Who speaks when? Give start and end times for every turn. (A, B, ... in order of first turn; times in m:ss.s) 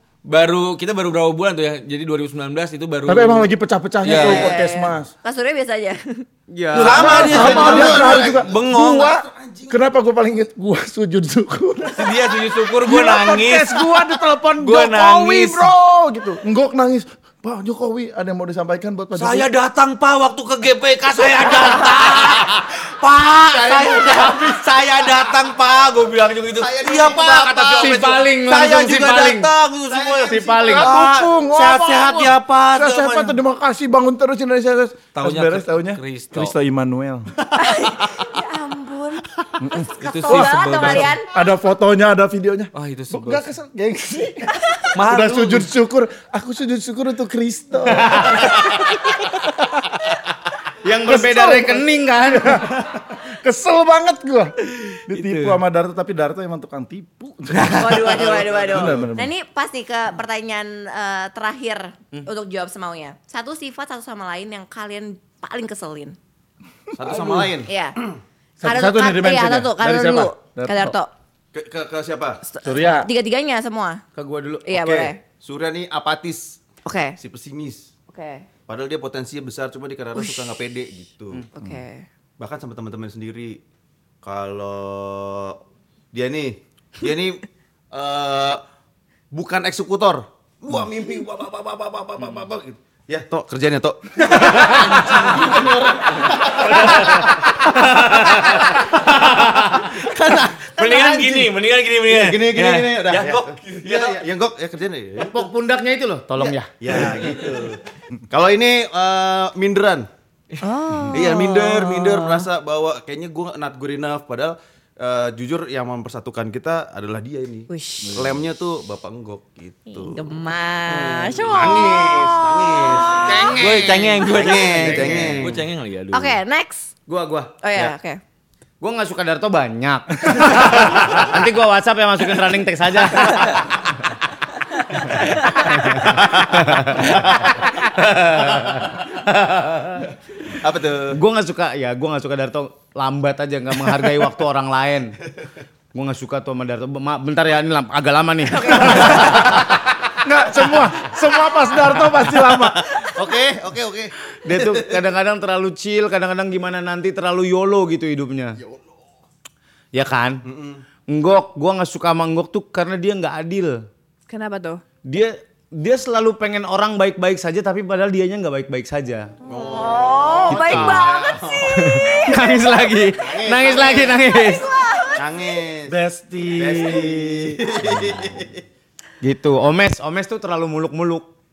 0:00.2-0:03.5 A
0:03.1-0:05.1 B
0:04.0-0:04.5 A
0:04.1-0:04.5 C
0:04.2-0:06.2 D
0:06.5-0:07.8 E
0:06.7-0:12.1 B
0:06.8-0:09.1 A
0:06.8-0:09.8 C
0:11.9-0:14.0 A
0:12.8-0:19.5 B
0:14.6-0:15.7 A
0:19.1-0:33.4 A
0:23.5-0:24.6 C
0:26.5-0:27.9 C
0:27.0-0:29.5 E
0:29.9-0:30.9 C
0:30.3-0:30.9 E
0:30.7-0:37.3 B
0:35.1-0:36.5 A
0:37.5-0:41.3 D
0:39.6-0:49.5 B
0:40.0-0:41.2 A
0:42.7-0:43.5 A
0:44.9-0:45.7 A
0:48.1-0:48.4 E
0:50.8-0:52.7 E
0:51.1-0:59.3 B
0:55.2-0:55.5 A
0:57.7-1:06.2 D
0:58.1-0:59.0 C
1:07.0-1:08.1 C
1:07.0-1:07.5 B
1:07.7-1:08.0 D
1:08.6-1:10.9 B
1:08.6-1:11.1 D
1:11.5-1:12.4 C
1:12.5-1:14.0 D
1:12.6-1:13.1 B
1:14.1-1:14.7 E
1:14.7-1:15.2 D
1:14.7-1:16.6 C
1:16.8-1:17.2 D
1:17.2-1:17.9 C
1:18.1-1:18.4 D
1:18.7-1:21.4 C
1:21.5-1:22.0 D
1:22.4-1:23.6 C
1:24.2-1:25.6 C
1:26.1-1:28.6 C
1:29.3-1:41.5 C
1:34.6-1:35.4 A
1:36.6-1:38.9 A
1:40.6-1:44.2 A
1:42.1-1:45.5 C
1:45.2-1:46.7 E
1:46.4-1:50.1 C
1:50.6-1:52.4 D
1:51.1-2:00.2 C
1:57.7-1:58.2 D
1:59.9-2:03.6 D
2:00.9-2:05.6 C
2:03.1-2:05.5 E
2:03.5-2:06.4 A
2:06.1-2:06.9 D
2:07.1-2:07.6 E
2:07.6-2:08.2 D
2:08.8-2:13.9 E
2:14.9-2:15.7 D
2:15.1-2:20.1 E
2:16.1-2:17.5 C
2:20.6-2:21.2 C
2:21.1-2:25.2 E
2:25.9-2:29.7 E
2:28.5-2:29.4 D
2:30.2-2:32.8 B
2:32.5-2:35.0 C
2:34.4-2:38.6 E
2:39.9-2:40.4 E
2:40.4-2:40.8 C
2:41.1-2:43.8 E
2:44.3-2:44.8 D
2:45.0-2:49.3 E
2:49.4-2:54.2 C
2:49.6-2:51.6 D
2:50.5-2:51.1 E
2:51.7-2:54.7 E
2:54.6-2:55.2 D
2:55.1-2:55.9 C
2:55.9-2:57.7 B
2:56.5-2:58.6 C
2:59.2-3:01.2 E